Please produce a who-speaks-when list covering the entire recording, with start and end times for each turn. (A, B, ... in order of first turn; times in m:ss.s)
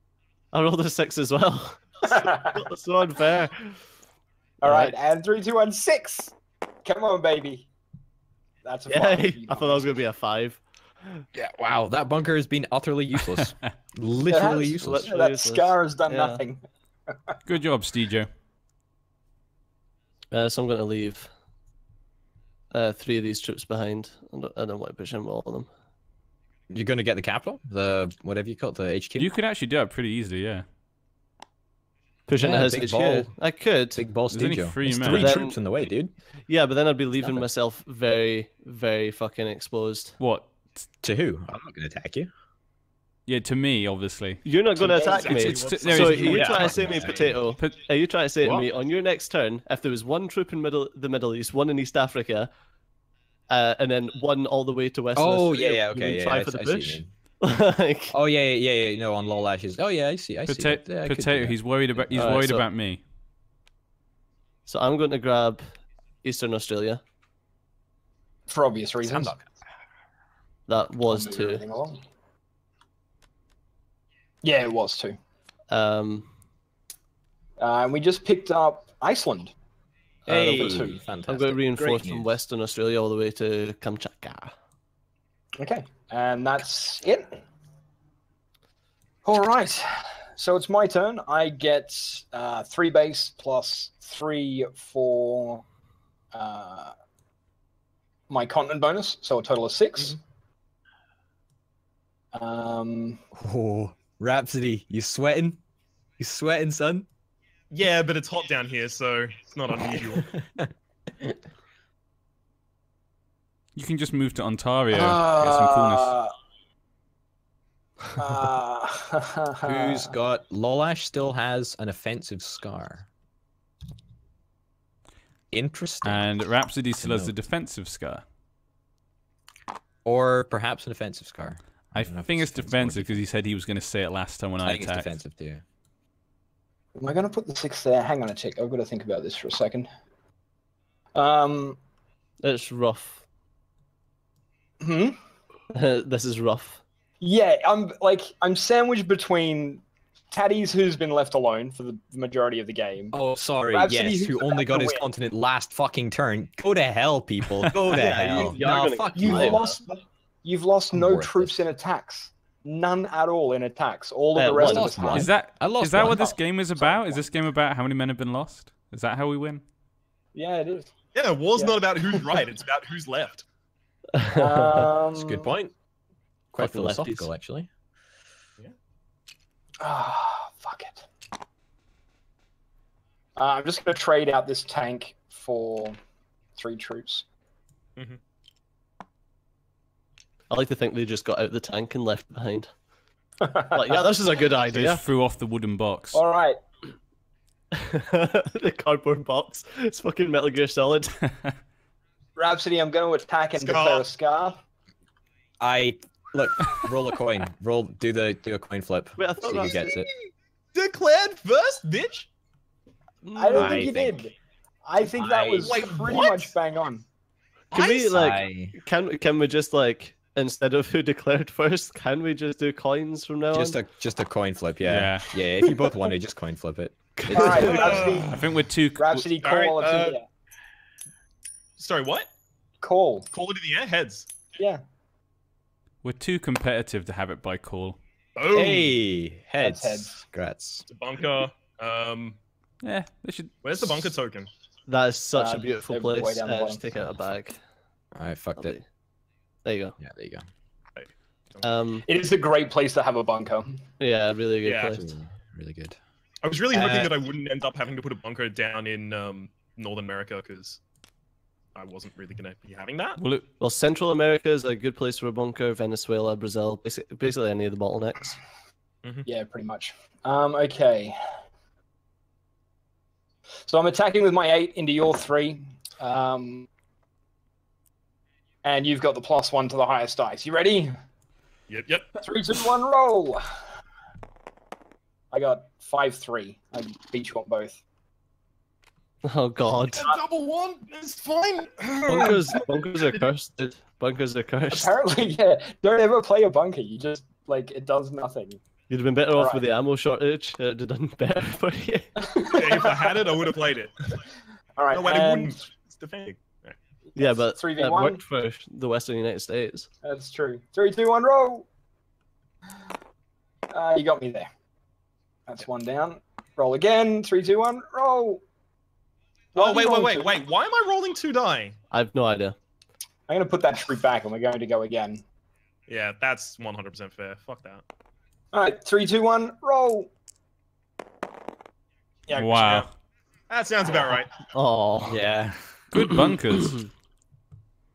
0:00.5-0:03.8 A
0:02.1-0:02.6 B
0:04.6-0:07.7 B
0:04.6-0:04.9 A
0:08.6-0:09.9 B
0:08.9-0:11.2 A
0:11.4-0:15.1 C
0:14.3-0:16.6 B
0:14.6-0:16.4 A
0:17.5-0:18.3 D
0:20.3-0:21.3 A
0:22.7-0:25.7 A
0:26.7-0:29.3 C
0:29.2-0:30.6 D
0:32.3-0:34.0 A
0:32.4-0:33.3 C
0:34.0-0:36.1 C
0:34.3-0:35.4 D
0:35.1-0:35.6 A
0:36.5-0:40.2 A
0:37.2-0:37.4 C
0:40.2-0:40.5 D
0:41.0-0:42.3 C
0:43.3-0:44.4 D
0:44.4-0:52.5 A
0:44.8-0:46.0 B
0:45.2-0:47.4 C
0:45.2-0:46.8 D
0:53.5-0:58.2 A
0:55.2-0:57.1 C
0:58.1-1:02.3 C
1:00.5-1:03.0 D
1:02.2-1:02.6 A
1:04.7-1:07.0 A
1:08.5-1:09.3 B
1:09.0-1:09.5 C
1:10.7-1:11.6 A
1:11.1-1:12.0 B
1:14.4-1:15.2 B
1:15.7-1:16.3 A
1:17.6-1:19.5 B
1:20.3-1:21.0 B
1:20.3-1:22.3 C
1:21.3-1:24.5 A
1:25.6-1:27.4 B
1:29.2-1:35.6 B
1:36.3-1:36.9 B
1:38.3-1:40.2 B
1:42.3-1:43.2 B
1:43.3-1:45.6 C
1:46.2-1:47.1 C
1:47.7-1:50.3 E
1:50.4-1:50.7 C
1:53.8-1:56.2 D
1:54.9-1:56.3 B
1:58.2-2:00.1 B
1:59.6-2:03.1 C
2:05.5-2:06.3 C
2:06.0-2:08.2 D
2:07.0-2:07.3 C
2:10.0-2:13.2 C
2:11.9-2:15.1 D
2:14.6-2:15.6 C
2:17.0-2:19.9 B
2:21.2-2:21.8 B
2:22.4-2:23.2 A
2:24.8-2:25.2 B
2:25.7-2:26.8 A
2:27.2-2:33.2 B
2:33.1-2:39.6 C
2:33.7-2:35.0 B
2:37.8-2:39.8 A
2:39.2-2:45.3 B
2:40.9-2:41.6 C
2:44.4-2:45.2 A
2:44.6-2:46.4 C
2:45.1-2:49.6 D
2:46.8-2:47.1 B
2:50.4-2:50.9 B
2:51.1-2:53.5 E
2:51.6-2:52.4 B
2:54.1-2:54.9 A
2:54.3-2:55.5 B
2:55.1-2:55.7 C
2:56.5-2:57.7 C
2:56.6-2:57.3 A
2:59.8-3:01.0 B
3:03.4-3:06.0 B
3:06.6-3:07.2 B
3:10.5-3:12.7 A
3:13.4-3:14.1 B
3:13.7-3:15.0 A
3:14.7-3:16.2 D
3:16.1-3:16.6 B
3:17.8-3:21.2 A
3:22.4-3:24.6 B
3:23.6-3:24.1 E
3:25.6-3:30.1 C
3:29.2-3:29.9 A
3:30.7-3:32.3 E
3:33.2-3:33.9 A
3:33.4-3:34.3 B
3:33.5-3:34.2 C
3:34.8-3:37.0 B
3:35.2-3:35.7 C
3:35.2-3:36.5 E
3:37.7-3:38.7 C
3:37.7-3:43.8 A
3:43.5-3:48.2 C
3:44.8-3:45.3 D
3:47.2-3:48.1 A
3:47.3-3:48.4 B
3:47.7-3:48.4 E
3:48.3-3:49.3 D
3:49.0-3:50.2 B
3:49.4-3:50.2 E
3:51.8-3:52.3 E
3:52.8-3:53.3 B
3:53.3-3:54.3 E
3:54.6-3:54.8 B
3:56.0-3:58.0 D
3:58.4-3:59.0 E
3:58.5-4:00.8 C
3:59.6-4:00.2 B
4:00.9-4:02.4 E
4:02.8-4:04.1 D
4:03.6-4:04.5 E
4:04.9-4:07.6 A
4:05.4-4:06.8 B
4:08.2-4:08.8 C
4:08.6-4:08.8 A
4:09.6-4:10.0 A
4:10.0-4:10.4 C
4:11.0-4:11.6 E
4:11.6-4:12.0 A
4:12.1-4:13.8 B
4:14.0-4:15.1 A
4:14.6-4:15.0 E
4:14.9-4:16.0 C
4:16.4-4:20.8 E
4:16.7-4:17.1 C
4:21.8-4:23.2 E
4:23.2-4:23.5 D
4:23.6-4:28.4 A
4:29.3-4:31.2 B
4:33.7-4:36.7 B
4:38.6-4:40.9 B
4:41.7-4:42.2 E
4:42.2-4:43.4 B
4:45.3-4:47.8 B
4:49.2-4:50.1 A
4:50.0-4:52.6 E
4:52.1-4:54.9 A
4:52.1-4:52.4 B
4:54.7-4:58.6 B
4:58.9-5:02.1 A
4:59.4-4:59.6 B
5:02.2-5:03.3 B
5:02.5-5:04.1 E
5:04.8-5:05.6 B
5:04.9-5:06.8 E
5:07.2-5:08.2 B
5:07.2-5:09.9 A
5:10.0-5:11.7 B
5:13.7-5:14.5 B
5:15.5-5:18.4 B
5:19.5-5:21.8 E
5:19.6-5:20.4 B
5:21.9-5:22.6 A
5:23.3-5:25.2 B
5:25.9-5:27.8 E
5:28.5-5:30.1 B
5:32.3-5:32.6 B
5:32.3-5:32.9 D
5:32.6-5:32.9 E
5:33.5-5:34.3 E
5:34.5-5:35.2 A
5:35.1-5:35.8 C
5:35.9-5:36.8 D